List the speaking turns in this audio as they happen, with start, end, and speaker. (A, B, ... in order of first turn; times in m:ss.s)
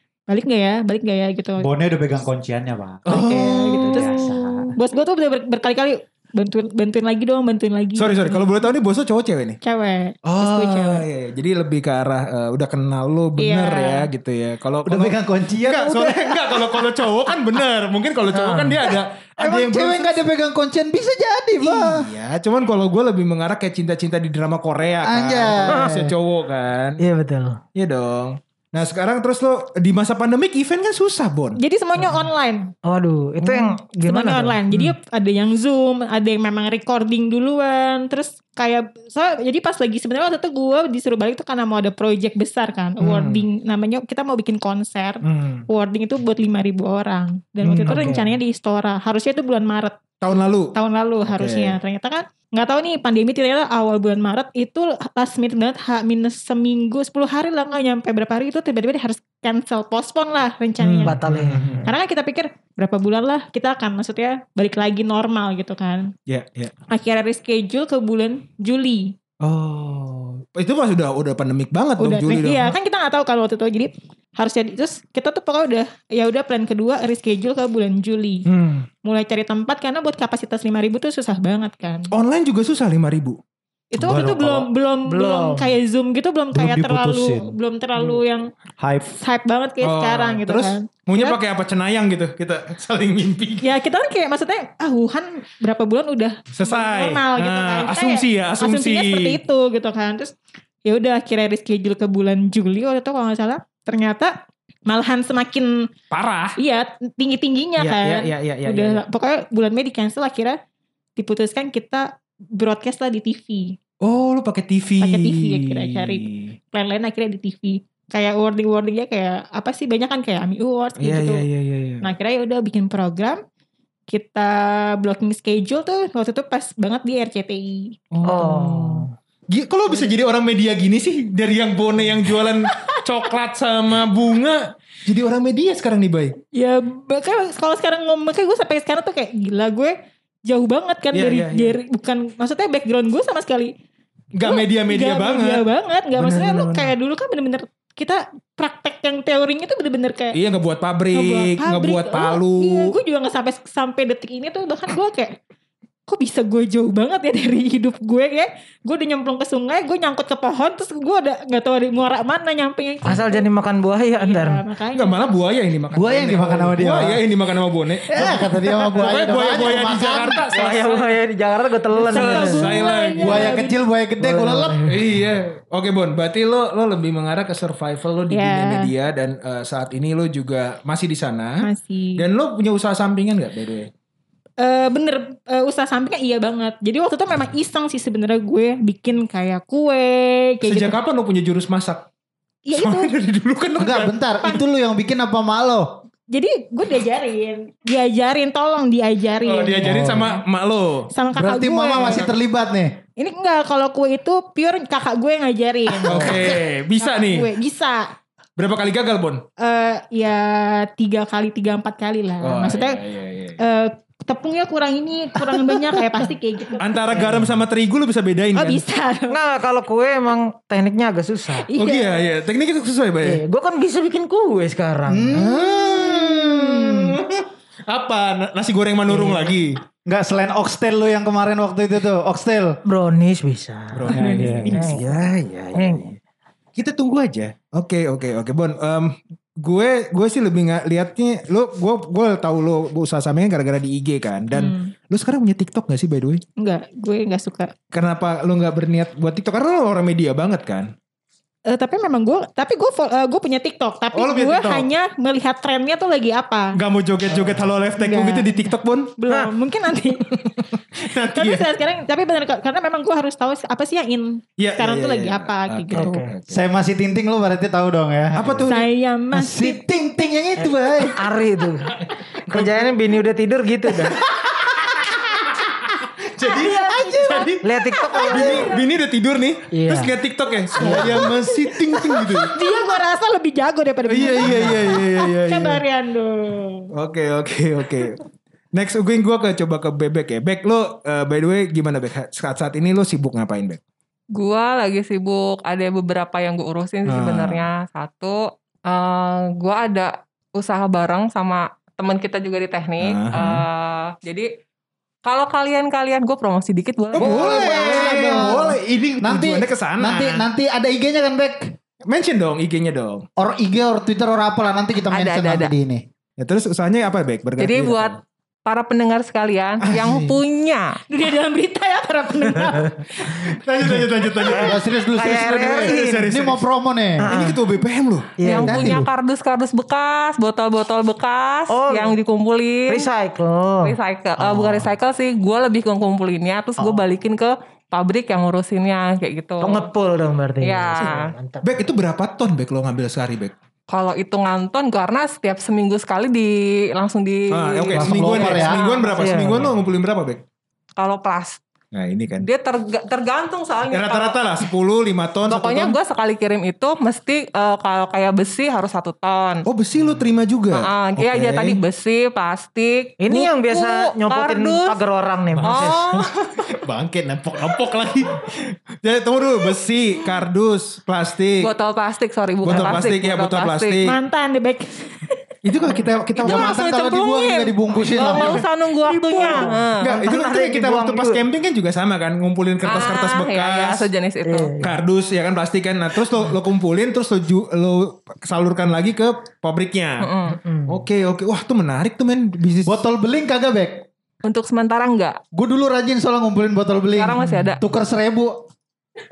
0:00.3-0:01.7 A
0:01.6-0:04.7 B
0:03.1-0:04.2 C
0:03.1-0:08.6 A
0:08.0-0:09.6 C
0:09.6-0:11.1 A
0:10.2-0:20.2 C
0:13.4-0:14.1 A
0:14.8-0:16.9 B
0:18.3-0:18.9 D
0:19.4-0:22.1 B
0:21.6-0:27.0 C
0:25.0-0:26.1 B
0:25.7-0:26.1 D
0:27.0-0:27.6 D
0:27.8-0:31.6 C
0:31.6-0:32.7 A
0:32.8-0:34.6 D
0:33.4-0:50.0 A
0:43.0-0:43.5 C
0:45.2-0:45.7 C
0:47.6-0:48.2 C
0:47.7-0:48.3 D
0:50.2-0:50.8 C
0:50.7-1:01.2 A
0:51.3-0:51.8 C
1:00.8-1:01.9 C
1:01.1-1:01.9 D
1:01.8-1:06.1 A
1:06.3-1:06.7 C
1:06.9-1:09.1 A
1:09.4-1:12.8 C
1:12.0-1:18.5 A
1:18.5-1:18.9 C
1:19.0-1:22.1 A
1:22.1-1:23.4 C
1:23.9-1:28.5 A
1:24.0-1:24.7 C
1:25.1-1:25.8 D
1:26.5-1:27.5 B
1:28.8-1:29.1 B
1:29.1-1:31.4 A
1:29.8-1:33.7 C
1:33.6-1:44.4 A
1:36.5-1:39.4 C
1:44.9-1:45.9 A
1:46.1-1:46.6 C
1:46.6-1:50.6 A
1:47.8-1:49.0 C
1:51.2-1:53.8 A
1:54.0-1:56.6 C
1:55.0-2:01.5 A
2:01.0-2:02.1 C
2:02.0-2:03.4 A
2:04.1-2:08.0 A
2:08.1-2:16.4 C
2:08.2-2:09.1 D
2:12.7-2:13.0 A
2:16.5-2:23.7 A
2:21.1-2:21.8 C
2:24.3-2:26.9 C
2:24.4-2:30.4 A
2:30.3-2:33.0 C
2:31.1-2:35.4 A
2:36.1-2:43.5 A
2:43.1-2:44.6 D
2:44.2-2:45.3 A
2:44.9-2:51.1 C
2:45.9-2:47.2 B
2:48.1-2:50.4 B
2:48.2-2:48.5 D
2:50.4-2:52.9 D
2:52.0-2:53.8 A
2:52.1-2:53.6 C
2:53.2-2:54.8 B
2:54.2-2:55.1 D
2:54.8-3:03.9 C
2:58.3-2:58.9 A
3:01.6-3:02.3 A
3:04.6-3:11.0 A
3:10.6-3:12.1 C
3:12.7-3:13.1 A
3:12.7-3:14.1 C
3:13.8-3:16.0 B
3:16.3-3:20.4 A
3:19.4-3:21.1 C
3:20.0-3:20.2 B
3:21.1-3:22.3 A
3:21.4-3:23.0 B
3:21.9-3:22.3 C
3:23.2-3:28.1 A
3:26.0-3:27.5 C
3:28.6-3:29.4 C
3:29.6-3:33.0 A
3:32.4-3:33.6 C
3:33.6-3:37.2 A
3:35.5-3:35.9 C
3:36.8-3:38.8 C
3:37.1-3:37.6 D
3:38.6-3:39.4 A
3:39.3-3:41.7 D
3:41.7-3:42.3 A
3:41.8-3:43.4 C
3:43.2-3:45.6 D
3:45.1-3:47.2 B
3:45.3-3:49.8 C
3:49.1-3:49.5 D
3:50.1-3:52.8 B
3:52.8-3:56.1 D
3:53.9-3:56.2 C
3:54.1-3:54.8 B
3:56.8-4:06.4 C
4:04.5-4:04.9 A
4:06.6-4:07.7 A
4:07.9-4:10.9 C
4:11.7-4:16.8 A
4:14.1-4:14.9 C
4:16.8-4:19.2 C
4:17.3-4:17.6 D
4:18.0-4:20.4 A
4:20.3-4:21.7 C
4:21.3-4:26.2 A
4:24.6-4:26.6 C
4:26.0-4:26.3 D
4:26.5-4:28.7 B
4:28.3-4:28.8 C
4:28.7-4:29.8 A
4:29.3-4:31.2 B
4:30.6-4:34.2 D
4:32.5-4:32.9 C
4:34.1-4:34.9 C
4:36.3-4:37.7 C
4:36.4-4:38.8 A
4:37.6-4:38.7 D
4:38.2-4:42.6 C
4:39.7-4:40.2 D
4:40.8-4:41.3 D
4:40.8-4:46.9 A
4:44.1-4:45.8 C
4:44.5-4:44.8 D
4:46.9-4:53.8 C
4:54.3-5:04.5 E
4:57.1-4:57.6 C
5:03.0-5:03.6 C
5:05.2-5:07.7 E
5:07.2-5:11.8 B
5:07.2-5:10.5 C
5:12.1-5:13.3 C
5:13.4-5:16.0 B
5:15.1-5:15.7 E
5:16.4-5:18.2 C
5:17.6-5:21.0 E
5:19.8-5:20.4 C
5:21.1-5:23.6 A
5:23.2-5:26.6 C
5:24.5-5:26.2 D
5:24.6-5:27.4 B
5:27.2-5:27.6 D
5:27.3-5:28.4 C
5:28.4-5:29.0 D
5:28.4-5:33.1 E
5:28.6-5:29.1 B
5:31.7-5:32.2 D
5:32.9-5:34.0 D
5:33.8-5:39.9 E
5:39.6-5:41.9 D
5:40.6-5:41.3 E
5:41.6-5:43.5 C
5:43.9-5:49.7 E
5:47.5-5:50.4 C
5:47.9-5:48.8 B
5:49.2-5:49.8 D
5:51.0-5:51.6 E
5:51.9-5:52.5 C
5:52.4-5:54.6 E
5:53.9-5:56.0 C
5:55.4-5:59.7 E
5:59.6-6:01.8 C
6:00.7-6:05.0 E
6:03.2-6:06.0 D
6:05.6-6:11.7 C
6:05.6-6:06.6 E
6:11.6-6:14.0 E
6:12.6-6:14.2 C
6:14.0-6:15.3 A
6:15.6-6:16.8 C
6:16.4-6:20.2 E
6:16.4-6:18.6 B
6:19.1-6:19.7 A
6:19.3-6:21.4 D
6:20.0-6:24.1 C
6:22.8-6:24.8 E
6:24.4-6:25.0 D
6:24.8-6:30.3 C
6:30.2-6:30.6 E
6:30.5-6:31.0 D
6:30.9-6:33.0 C
6:32.8-6:34.0 B
6:34.4-6:35.4 E
6:35.5-6:38.6 B
6:37.2-6:37.8 E